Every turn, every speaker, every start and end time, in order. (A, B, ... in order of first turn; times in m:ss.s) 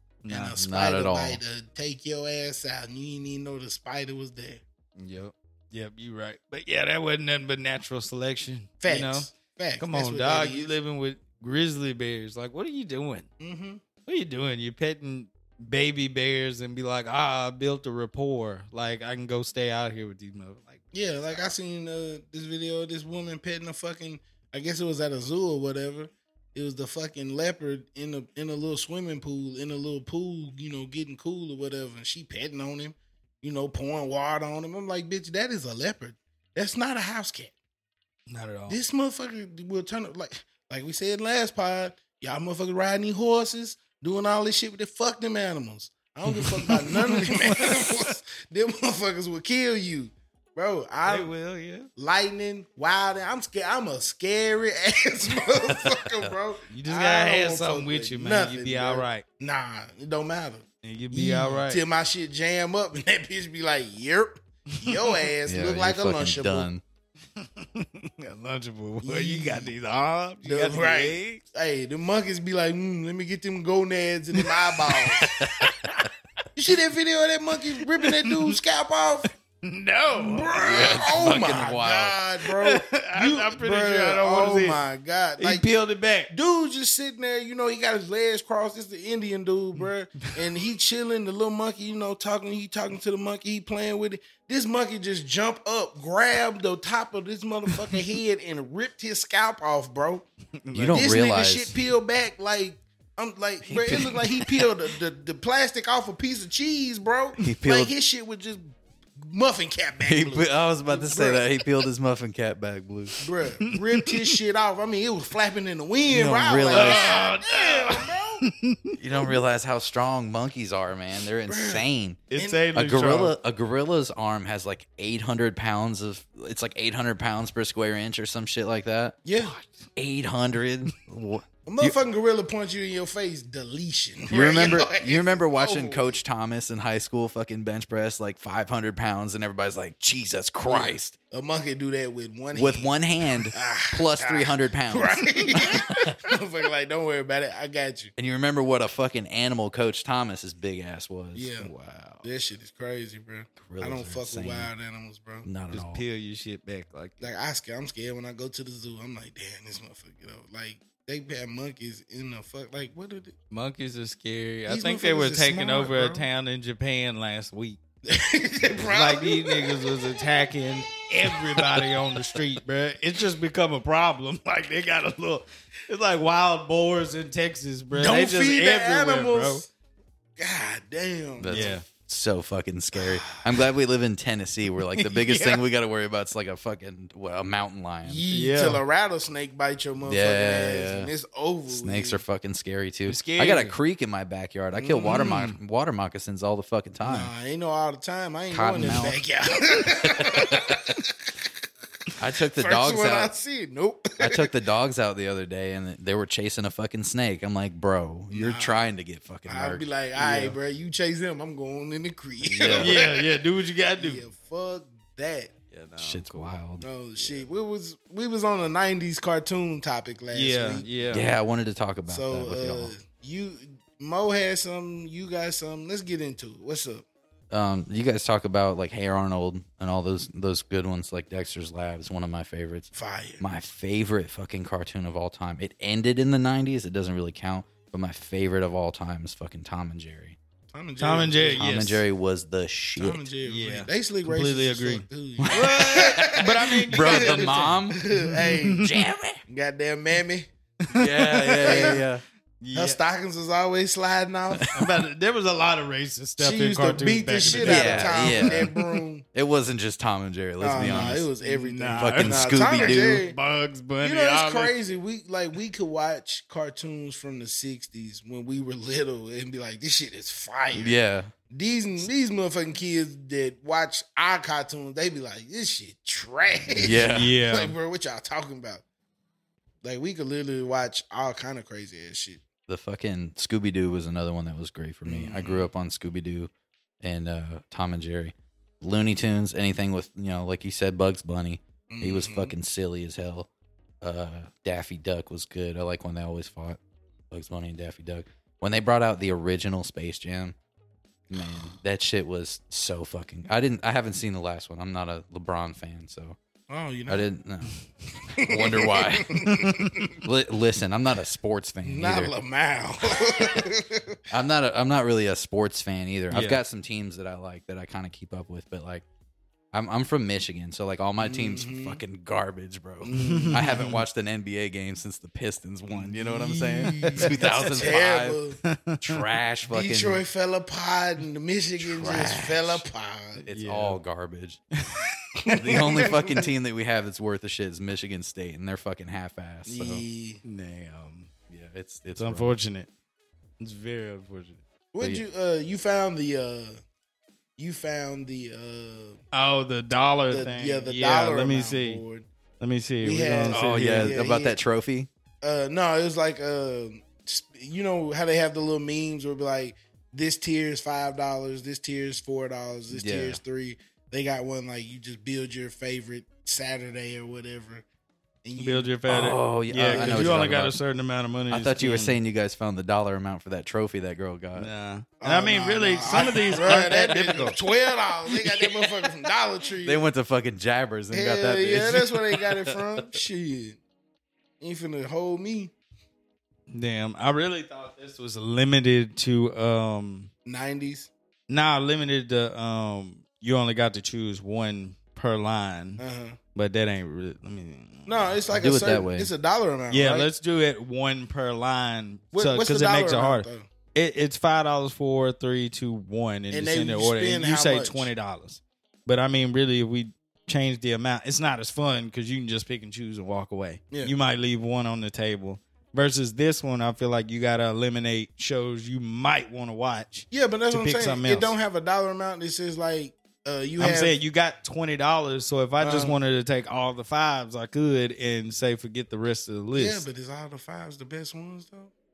0:00.2-0:00.6 A
0:00.3-0:04.6 B
0:00.5-0:01.4 C
0:05.0-0:13.3 A
0:08.8-0:10.8 B
0:13.4-0:13.8 B
0:14.0-0:21.5 A
0:20.9-0:37.5 B
0:38.3-0:38.8 A
0:38.7-0:51.3 B
0:46.3-0:48.1 A
0:51.0-0:51.9 A
0:52.0-1:06.7 B
0:55.7-0:56.3 C
0:56.7-0:59.2 A
1:00.8-1:01.8 A
1:04.7-1:05.2 A
1:05.5-1:06.8 C
1:07.4-1:11.4 A
1:09.0-1:09.7 B
1:10.4-1:15.3 B
1:14.4-1:16.1 A
1:15.4-1:16.0 C
1:16.6-1:19.3 B
1:18.0-1:18.6 A
1:19.6-1:21.0 A
1:20.1-1:25.7 B
1:20.6-1:22.2 C
1:22.4-1:24.8 A
1:25.4-1:26.3 A
1:26.3-1:40.3 B
1:40.6-1:41.1 A
1:40.7-1:41.7 C
1:40.9-1:51.5 B
1:43.6-1:44.6 C
1:47.4-1:47.9 C
1:50.0-1:53.2 C
1:53.2-1:58.4 B
1:53.7-1:54.1 A
1:56.1-1:57.2 C
1:56.7-1:58.9 A
1:58.9-2:09.2 C
2:01.5-2:01.8 B
2:02.3-2:03.3 A
2:02.4-2:02.6 B
2:09.2-2:09.6 B
2:09.4-2:09.9 A
2:10.0-2:11.9 C
2:11.6-2:16.2 B
2:14.3-2:21.2 C
2:20.6-2:23.0 B
2:22.5-2:26.1 C
2:23.5-2:28.1 B
2:28.2-2:31.5 C
2:31.3-2:31.7 B
2:31.6-2:32.3 A
2:32.2-2:35.5 B
2:33.6-2:34.7 C
2:35.4-2:36.0 C
2:35.7-2:37.2 A
2:37.2-2:43.4 B
2:43.5-2:47.8 A
2:44.7-2:46.3 B
2:48.0-2:50.0 B
2:48.8-2:59.6 A
2:51.3-2:51.9 B
2:57.9-2:59.7 B
3:00.4-3:01.7 B
3:01.4-3:08.2 C
3:01.5-3:01.8 A
3:03.0-3:03.4 B
3:05.3-3:05.5 A
3:08.0-3:12.2 B
3:08.3-3:08.8 A
3:10.0-3:11.1 C
3:11.7-3:17.3 C
3:13.0-3:13.8 A
3:14.8-3:15.3 B
3:15.1-3:15.6 A
3:17.0-3:21.3 B
3:18.5-3:19.2 C
3:18.8-3:19.1 A
3:20.0-3:20.8 C
3:22.2-3:23.3 C
3:22.5-3:24.4 B
3:24.2-3:29.9 C
3:28.3-3:28.8 B
3:29.5-3:33.3 B
3:30.2-3:30.6 A
3:32.4-3:33.0 C
3:32.7-3:34.2 A
3:34.0-3:35.5 B
3:35.7-3:36.5 A
3:36.0-3:36.8 C
3:36.8-3:40.9 B
3:40.3-3:41.3 A
3:41.1-3:42.9 C
3:42.1-3:47.0 B
3:47.5-4:00.4 C
3:52.9-3:53.4 B
4:00.7-4:01.7 B
4:01.0-4:02.0 A
4:01.6-4:03.3 C
4:03.0-4:08.8 B
4:03.4-4:09.0 A
4:05.4-4:08.0 C
4:08.8-4:09.4 C
4:09.5-4:10.5 B
4:10.9-4:12.1 A
4:10.9-4:12.2 C
4:11.6-4:12.0 B
4:12.6-4:13.0 A
4:12.7-4:14.8 B
4:14.6-4:14.9 C
4:14.7-4:18.8 A
4:16.4-4:19.2 B
4:17.6-4:18.7 C
4:19.3-4:21.3 C
4:20.6-4:23.4 B
4:20.7-4:24.7 A
4:21.9-4:23.2 C
4:24.0-4:30.9 B
4:30.7-4:31.3 C
4:31.5-4:38.8 B
4:36.8-4:37.4 C
4:36.8-4:37.8 A
4:39.8-4:42.4 B
4:42.7-4:46.5 C
4:45.0-4:45.7 B
4:47.0-4:53.5 C
4:51.9-4:52.5 B
4:54.0-4:56.8 C
4:57.3-5:00.6 C
5:01.3-5:06.4 C
5:01.3-5:01.7 B
5:06.7-5:07.3 B
5:07.1-5:07.8 C
5:08.3-5:09.7 C
5:08.4-5:10.2 B
5:09.6-5:10.0 A
5:10.2-5:12.3 C
5:11.8-5:14.2 B
5:14.3-5:19.0 C
5:16.3-5:16.6 A
5:19.7-5:28.4 C
5:21.2-5:22.0 B
5:23.0-5:23.9 B
5:23.1-5:24.0 A
5:25.9-5:28.6 B
5:27.0-5:27.4 A
5:28.7-5:29.2 A
5:29.0-5:30.2 C
5:29.7-5:33.4 B
5:31.8-5:32.8 C
5:33.4-5:34.6 C
5:33.5-5:34.0 A
5:34.8-5:35.6 A
5:35.4-5:36.5 B
5:35.6-5:40.0 C
5:39.6-5:40.4 B
5:40.4-5:41.3 A
5:41.5-5:42.5 C
5:42.2-5:42.9 A
5:43.6-5:44.6 A
5:44.9-5:46.8 B
5:47.6-5:49.2 B
5:49.3-5:52.0 A
5:50.3-5:52.3 B
5:52.6-5:54.2 A
5:53.0-5:54.6 B
5:53.5-5:55.1 C
5:55.4-6:07.8 B
6:02.9-6:03.4 C
6:08.4-6:08.9 B
6:08.6-6:12.2 A
6:09.1-6:10.8 C
6:09.9-6:10.5 B
6:11.5-6:14.7 C
6:14.6-6:17.6 A
6:15.2-6:20.1 B
6:19.8-6:23.0 C
6:21.1-6:23.8 B
6:24.6-6:25.7 B
6:26.7-6:30.3 A
6:30.4-6:31.1 B
6:31.5-6:36.0 A
6:36.0-6:36.4 B
6:36.6-6:38.3 A
6:38.0-6:40.3 B
6:38.5-6:39.3 C
6:39.9-7:01.6 A
6:42.3-6:43.7 B
6:46.5-6:48.1 B
7:00.3-7:04.2 B
7:03.8-7:10.0 A
7:05.8-7:06.1 B
7:09.7-7:11.9 B